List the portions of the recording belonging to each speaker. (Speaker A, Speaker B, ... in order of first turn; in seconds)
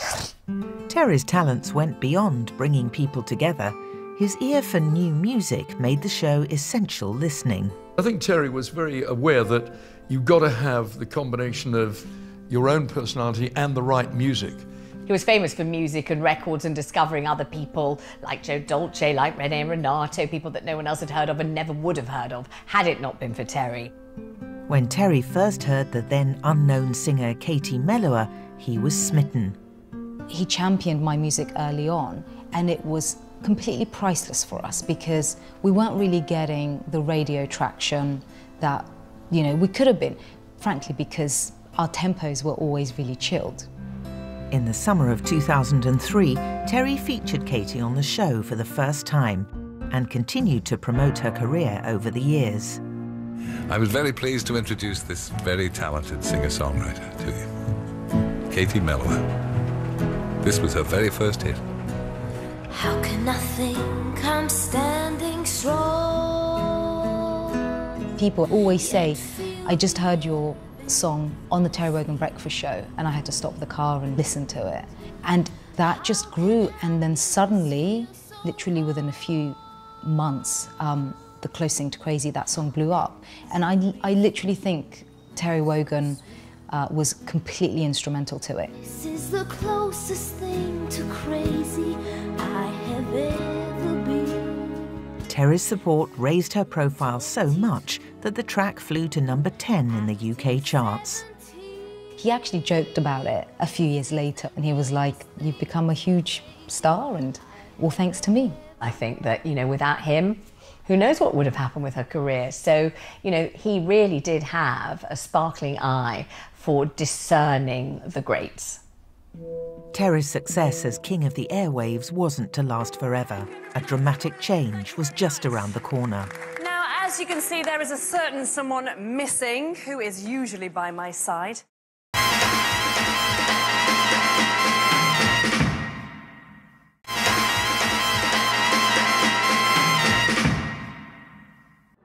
Speaker A: 0.9-7.8, 24.7-29.6, 44.5-52.8, 95.3-101.2, 119.9-126.3
Speaker B: 8.0-14.7
Speaker C: 15.1-23.9, 108.8-118.8
Speaker D: 30.3-43.7, 68.2-88.7, 102.2-108.6
Speaker E: 53.7-57.5, 58.5-59.3, 60.4-61.6
Speaker F: 62.7-67.3, 68.7-69.8, 88.8-94.8
Speaker G: 126.6-131.6